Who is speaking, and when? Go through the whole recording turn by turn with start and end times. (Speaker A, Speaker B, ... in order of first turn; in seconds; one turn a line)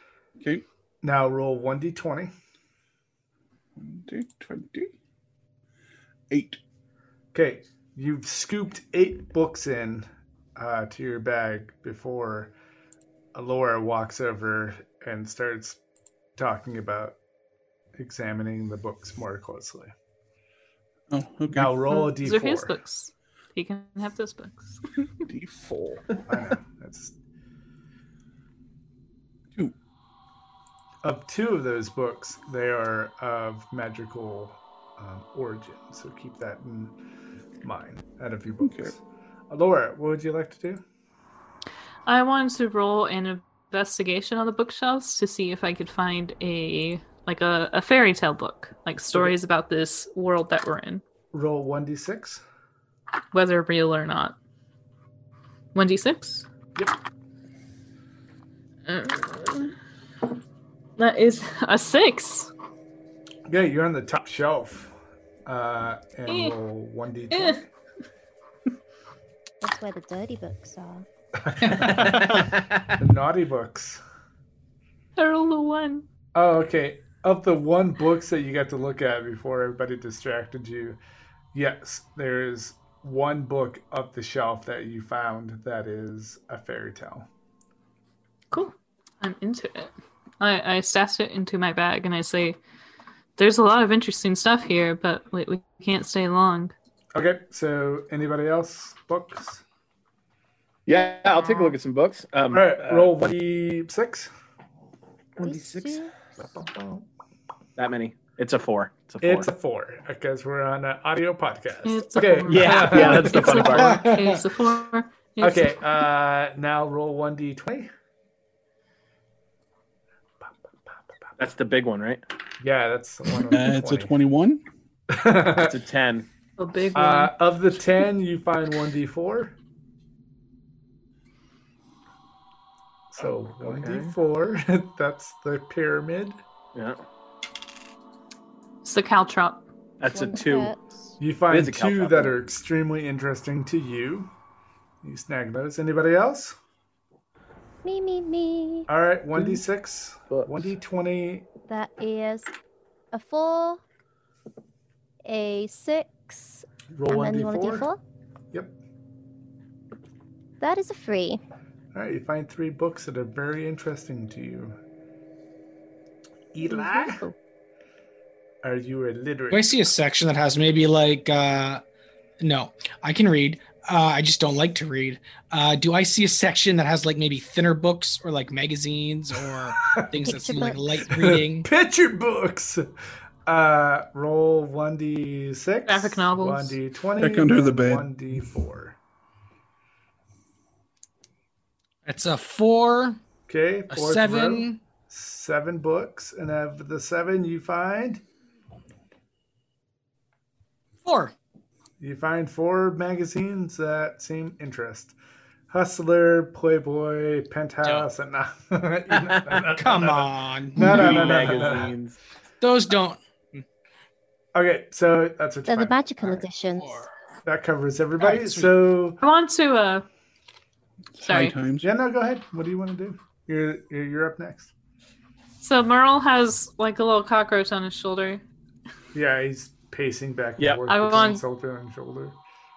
Speaker A: 1.0-2.3
Speaker B: 3.8-4.9
Speaker B: 6.3-6.6
Speaker A: 7.3-12.5
Speaker A: 13.3-15.8
Speaker A: 16.4-17.2
Speaker A: 18.0-19.9
Speaker B: 21.1-21.8
Speaker A: 21.5-22.8
Speaker C: 21.9-24.8
Speaker B: 25.2-26.1
Speaker A: 26.3-27.1
Speaker A: 31.0-37.0
Speaker A: 37.6-40.8
Speaker B: 38.6-38.9
Speaker C: 42.1-51.0
Speaker A: 51.3-52.4
Speaker C: 53.3-54.4
Speaker C: 55.7-56.5
Speaker C: 58.9-59.7
Speaker C: 61.0-62.5
Speaker A: 63.5-64.9
Speaker A: 65.5-67.7
Speaker C: 66.3-66.5
Speaker C: 67.3-67.6
Speaker D: 69.6-71.1
Speaker A: 71.4-74.0
Speaker E: 71.8-72.9
Speaker C: 75.2-76.0
Speaker A: 76.3-81.0
Speaker A: 81.5-87.3
Speaker C: 88.5-92.6
Speaker C: 93.4-96.7
Speaker A: 97.1-99.6
Speaker E: 100.9-103.1
Speaker A: 102.5-104.3
Speaker E: 105.4-106.0
Speaker D: 105.4-106.1
Speaker E: 107.8-109.5
Speaker A: 109.2-113.7
Speaker C: 111.8-115.8
Speaker E: 112.5-114.1
Speaker F: 113.7-114.4
Speaker A: 115.4-117.9
Speaker A: 120.4-121.0
Speaker E: 121.4-122.2
Speaker A: 122.6-124.1
Speaker B: 123.5-124.6
Speaker A: 125.1-125.8
Speaker E: 125.6-126.3
Speaker C: 126.6-127.3
Speaker A: 127.0-129.6
Speaker A: 133.1-136.4
Speaker E: 133.6-134.1
Speaker E: 136.8-137.0
Speaker C: 138.8-139.6
Speaker E: 140.0-140.7
Speaker D: 140.1-141.1
Speaker A: 141.2-144.3
Speaker E: 141.5-142.3
Speaker A: 145.0-146.6
Speaker D: 147.8-148.9
Speaker A: 148.9-151.5
Speaker E: 150.3-150.6
Speaker D: 151.7-152.5
Speaker D: 153.1-153.8
Speaker D: 155.2-158.0
Speaker A: 156.9-157.9
Speaker D: 160.6-161.4
Speaker A: 161.9-164.8
Speaker A: 166.5-167.2
Speaker D: 166.6-167.3
Speaker A: 168.6-169.8
Speaker F: 169.5-171.8
Speaker F: 172.4-181.7
Speaker A: 179.9-180.3
Speaker D: 180.3-180.9
Speaker A: 181.1-182.9
Speaker A: 183.5-189.0
Speaker C: 185.9-186.8
Speaker B: 187.2-188.4
Speaker F: 192.1-193.2
Speaker A: 193.5-198.2
Speaker F: 193.9-194.8
Speaker F: 201.1-201.3
Speaker A: 202.0-205.2
Speaker A: 205.7-211.9
Speaker F: 209.7-211.8
Speaker E: 210.8-212.2
Speaker F: 212.6-213.7
Speaker A: 214.5-216.4
Speaker D: 215.7-217.1
Speaker F: 216.8-217.1
Speaker A: 217.4-219.2
Speaker F: 218.2-218.7
Speaker C: 219.2-220.1
Speaker B: 221.2-221.9
Speaker C: 221.2-221.6
Speaker A: 221.8-224.7
Speaker C: 225.6-228.4
Speaker A: 229.1-232.4
Speaker C: 230.9-231.4